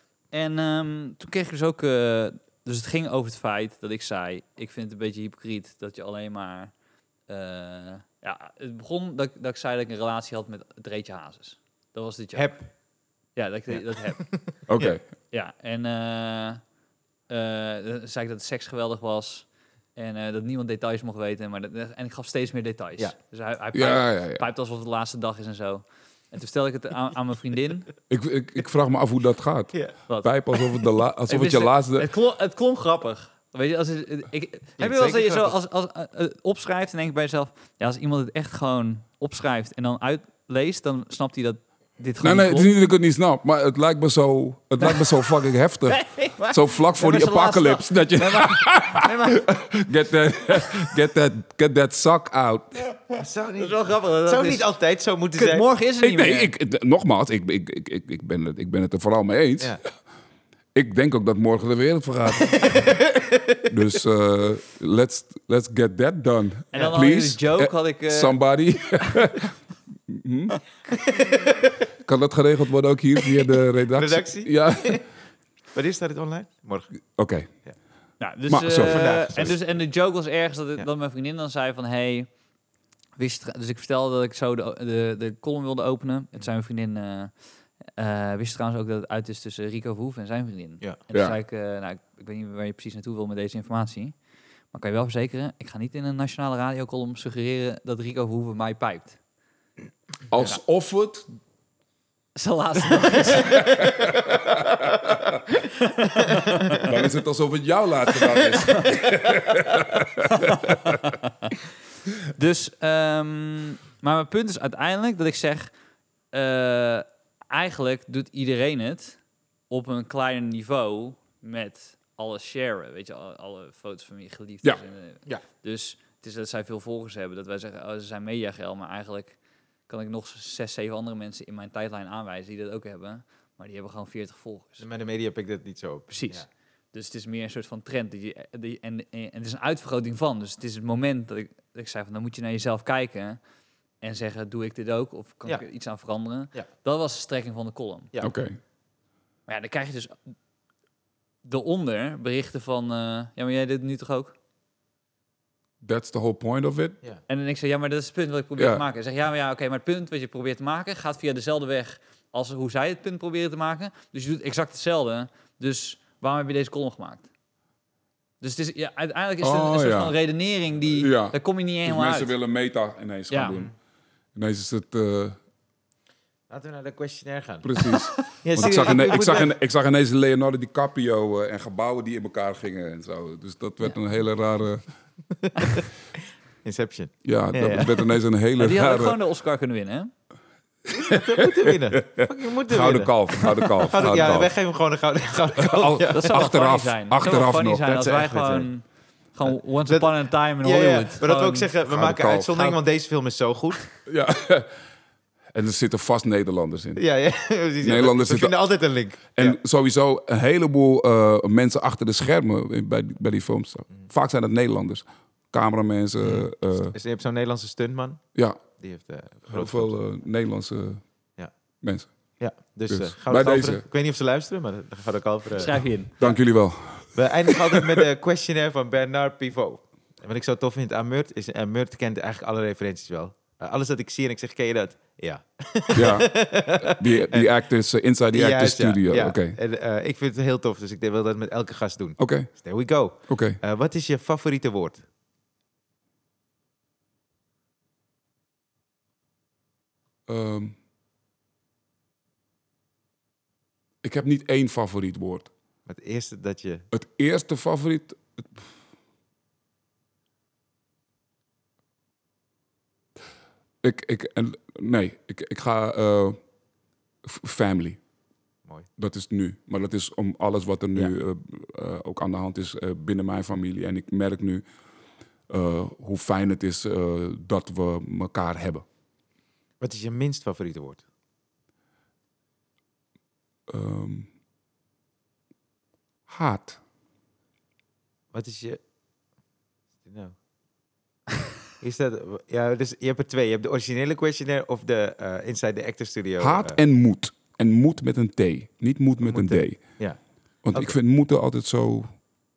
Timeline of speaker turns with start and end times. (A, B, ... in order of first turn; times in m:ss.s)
0:00.3-0:06.7 A
0:07.3-0:12.6 A
0:12.3-0:12.6 B
0:13.4-0:14.2 A
0:13.7-0:14.9 B
0:14.7-0:15.0 C
0:15.3-0:16.6 A
0:17.3-0:27.9 A
0:23.7-0:24.4 C
0:28.1-0:32.1 C
0:31.3-0:42.7 A
0:34.8-0:35.6 B
0:42.2-0:52.8 C
0:44.8-0:45.2 A
0:45.9-0:49.5 A
0:53.1-0:55.6 B
0:53.6-0:54.7 A
0:55.3-0:56.5 A
0:56.0-0:59.8 C
1:00.7-1:03.0 C
1:02.6-1:03.7 B
1:03.7-1:09.5 C
1:06.7-1:08.4 A
1:06.7-1:07.0 B
1:10.1-1:10.6 C
1:10.9-1:11.8 B
1:12.0-1:15.0 C
1:13.4-1:15.0 B
1:15.7-1:16.9 B
1:17.1-1:17.5 C
1:18.2-1:22.3 A
1:18.5-1:19.5 C
1:18.8-1:19.6 B
1:23.2-1:27.3 A
1:27.9-1:34.2 A
1:34.7-1:39.2 A
1:40.3-1:41.2 C
1:42.3-1:43.9 A
1:43.6-1:45.4 C
1:45.8-1:46.8 A
1:46.8-1:51.2 C
1:50.3-1:51.6 A
1:52.3-1:55.7 A
1:56.3-1:59.2 A
1:59.7-2:09.4 A
2:09.9-2:14.8 A
2:14.8-2:16.4 B
2:16.1-2:23.4 A
2:24.0-2:28.1 A
2:28.2-2:28.6 C
2:29.5-2:30.2 A
2:31.4-2:34.3 A
2:35.8-2:37.0 C
2:37.3-2:47.3 A
2:38.6-2:38.8 C
2:48.4-2:52.3 A
2:49.4-2:50.2 C
2:50.9-2:53.7 C
2:53.3-2:53.6 A
2:54.3-2:55.4 C
2:56.5-2:59.5 B
2:57.6-3:04.8 C
2:57.8-2:59.0 A
3:05.4-3:05.9 B
3:06.6-3:08.1 B
3:07.2-3:09.2 C
3:08.6-3:10.1 A
3:10.9-3:14.5 C
3:10.9-3:16.4 B
3:15.6-3:17.8 C
3:16.1-3:21.7 A
3:17.8-3:18.7 B
3:19.5-3:23.9 B
3:21.9-3:22.7 C
3:24.0-3:24.7 C
3:25.5-3:27.0 C
3:27.0-3:29.6 B
3:27.8-3:28.6 C
3:29.4-3:36.9 C
3:36.2-3:38.2 B
3:38.8-3:40.0 B
3:39.5-3:41.0 C
3:41.8-3:42.1 C
3:42.4-3:46.4 B
3:42.9-3:43.8 C
3:45.6-3:46.2 A
3:46.2-3:48.0 C
3:47.1-3:57.5 B
3:55.9-3:59.6 C
3:58.3-4:05.0 B
4:02.2-4:02.5 C
4:03.3-4:03.6 C
4:10.3-4:10.7 C
4:14.0-4:15.5 C
4:15.9-4:16.8 B
4:16.9-4:18.6 C
4:23.8-4:26.4 C
4:27.2-4:28.0 C
4:29.0-4:34.6 C
4:35.5-4:38.8 C
4:39.8-4:41.0 B
4:43.7-4:44.3 C
4:46.3-4:46.8 C
4:48.3-4:48.8 B
4:50.0-4:50.3 B
4:51.8-4:56.8 B
4:56.4-5:00.0 C
4:59.2-5:00.2 B
5:00.6-5:02.1 C